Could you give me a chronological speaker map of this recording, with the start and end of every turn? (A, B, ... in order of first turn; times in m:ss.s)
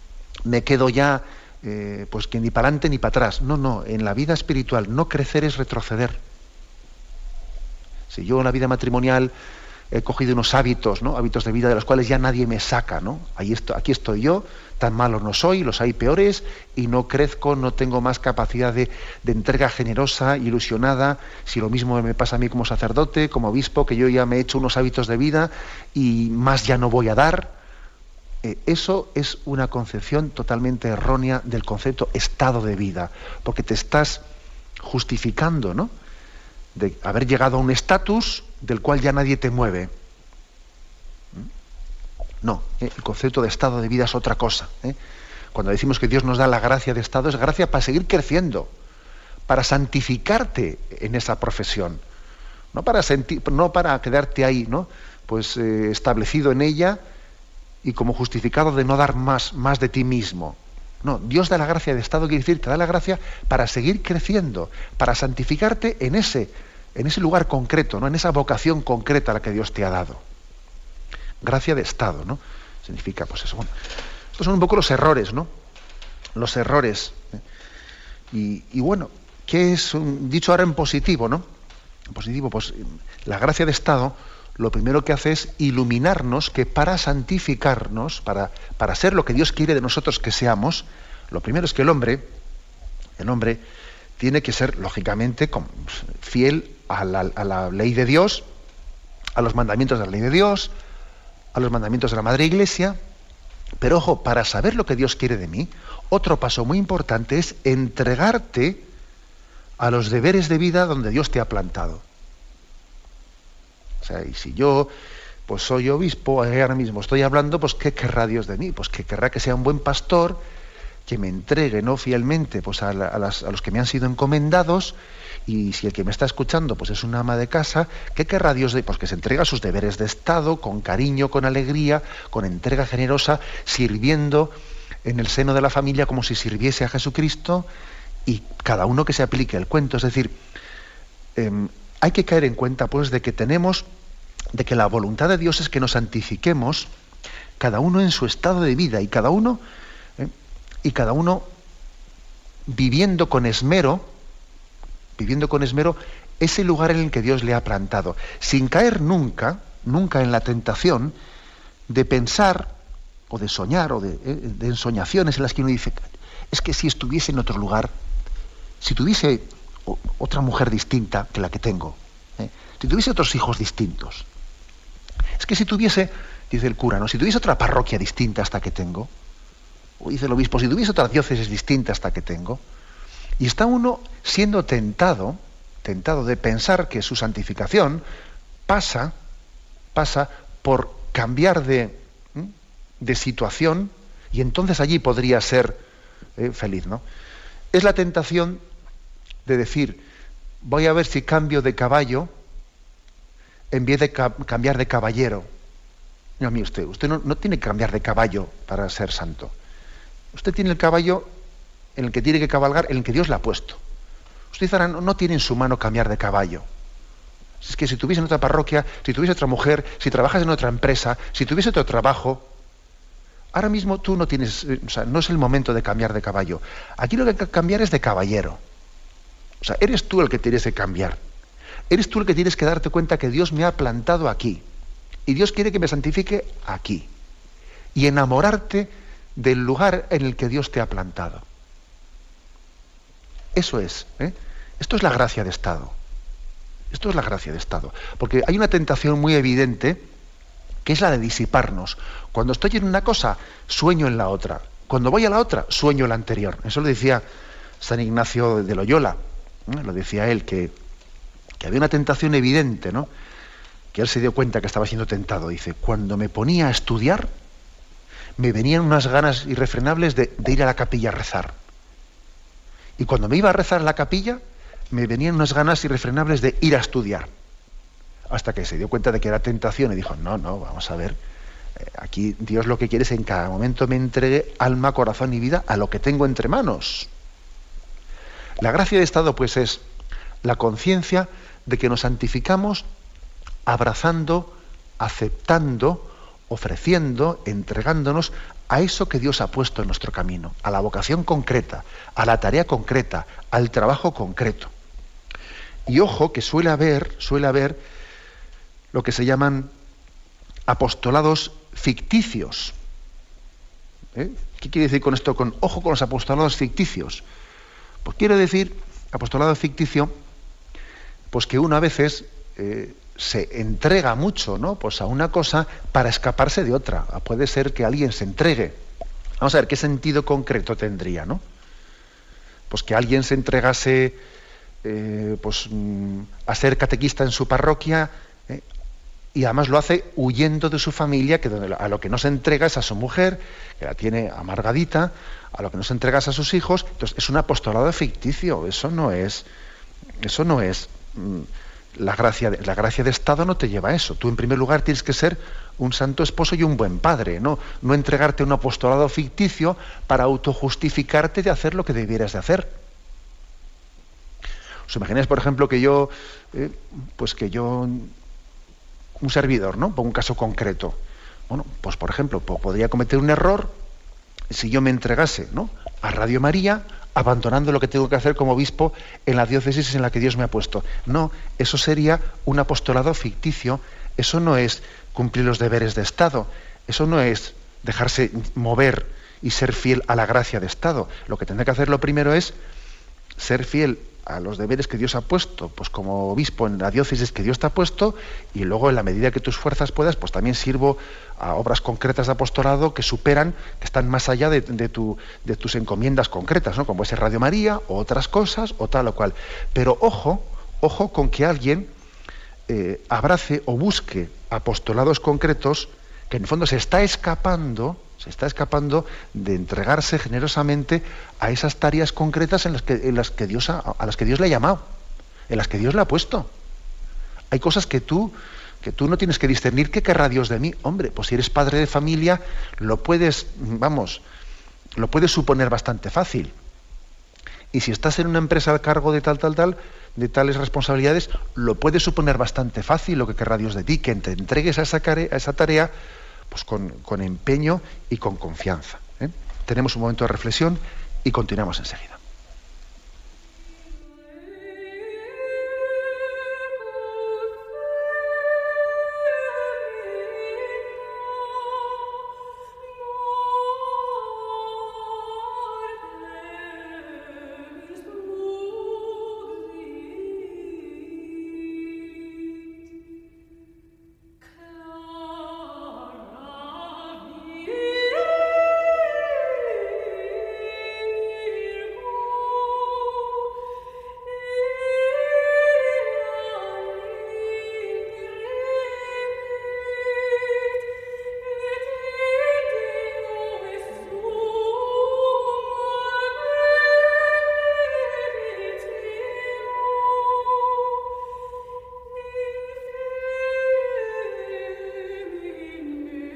0:00.4-0:06.2 A
0:08.1-0:09.3 A
0:09.9-0:27.5 A
0:28.4-0:34.2 A
0:34.8-0:35.9 A
0:36.7-0:39.9 A
0:42.4-0:45.0 A
0:45.5-0:48.7 A
0:49.5-0:52.0 A
0:52.7-0:57.0 A
0:57.8-1:10.2 A
1:11.4-1:13.7 A
1:14.4-1:15.5 A
1:16.3-1:17.2 A
1:18.3-1:21.4 A
1:22.1-1:32.3 A
1:33.2-1:33.6 A
1:34.2-1:38.4 A
1:39.4-1:40.7 A
1:41.5-1:43.0 A
1:43.8-1:48.8 A
1:49.8-1:52.0 A
1:54.0-1:54.9 A
1:55.5-2:00.4 A
2:01.0-2:14.5 A
2:15.0-2:17.7 A
2:18.2-2:20.4 A
2:21.4-2:23.9 A
2:24.5-2:26.9 A
2:27.6-2:29.6 A
2:30.8-2:31.5 A
2:32.7-2:34.1 A
2:35.2-2:41.2 A
2:41.9-2:42.7 A
2:43.3-2:47.9 A
2:48.8-2:54.3 A
2:55.4-2:59.1 A
3:00.0-3:02.6 A
3:03.4-3:08.0 A
3:08.7-3:09.1 A
3:09.9-3:15.8 A
3:16.4-3:17.0 A
3:17.7-3:18.6 A
3:19.4-3:20.0 A
3:20.6-3:22.3 A
3:23.7-3:25.5 A
3:26.4-3:29.5 A
3:30.3-3:31.3 A
3:32.0-3:33.8 A
3:34.5-3:36.6 A
3:37.6-3:42.5 A
3:43.5-3:48.6 A
3:49.6-3:51.2 A
3:51.9-3:54.6 A
3:55.2-3:57.1 A
3:57.9-4:01.4 A
4:03.5-4:05.9 A
4:06.9-4:10.0 A
4:10.8-4:17.2 A
4:17.8-4:20.7 A
4:21.6-4:23.1 A
4:23.9-4:27.3 A
4:28.4-4:31.5 A
4:33.0-4:37.3 A
4:38.3-4:41.2 A
4:41.8-4:47.1 A
4:48.6-4:49.8 A
4:50.4-4:52.8 A
4:53.6-5:04.7 A
5:05.9-5:07.8 A
5:08.9-5:09.7 A
5:10.7-5:12.7 A
5:14.1-5:17.2 A
5:18.0-5:20.1 A
5:21.3-5:28.8 A
5:29.4-5:31.4 A
5:32.7-5:34.2 A
5:34.8-5:38.6 A
5:39.3-5:49.4 A
5:50.2-6:02.7 A
6:04.9-6:08.1 A
6:09.2-6:11.0 A
6:11.5-6:13.8 A
6:14.5-6:32.5 A
6:33.4-6:51.9 A
6:52.7-7:04.8 A
7:05.5-7:06.5 A
7:07.5-7:14.2 A
7:15.0-7:16.5 A
7:17.7-7:25.9 A
7:26.5-7:32.2 A